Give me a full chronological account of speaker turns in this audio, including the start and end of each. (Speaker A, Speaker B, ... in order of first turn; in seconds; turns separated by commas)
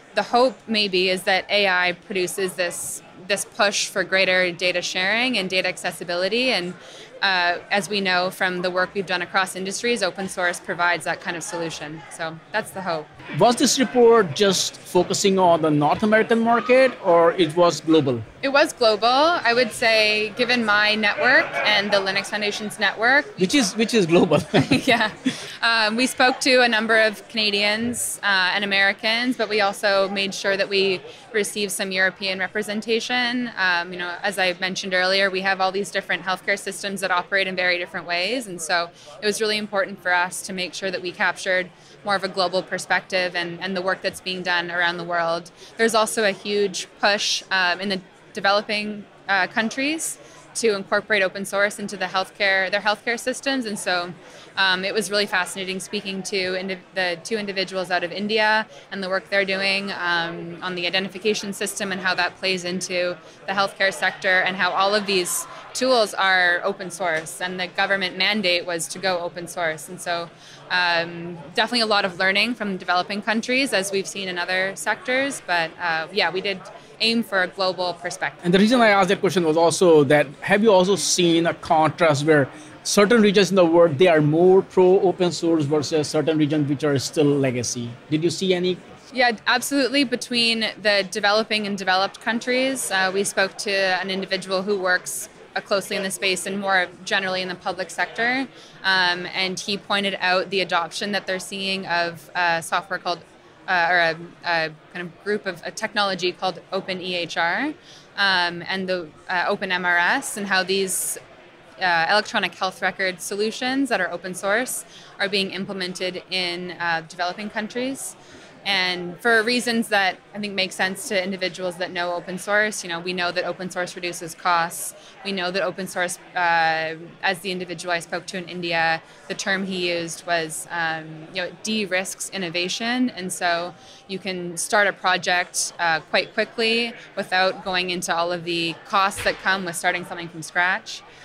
Speaker A: 0.1-13.1, Speaker B: 13.4-18.2, Speaker A: 18.4-23.5, Speaker B: 23.4-24.7, Speaker A: 24.6-78.4, Speaker B: 78.4-88.8, Speaker A: 89.1-111.2, Speaker A: 111.8-141.0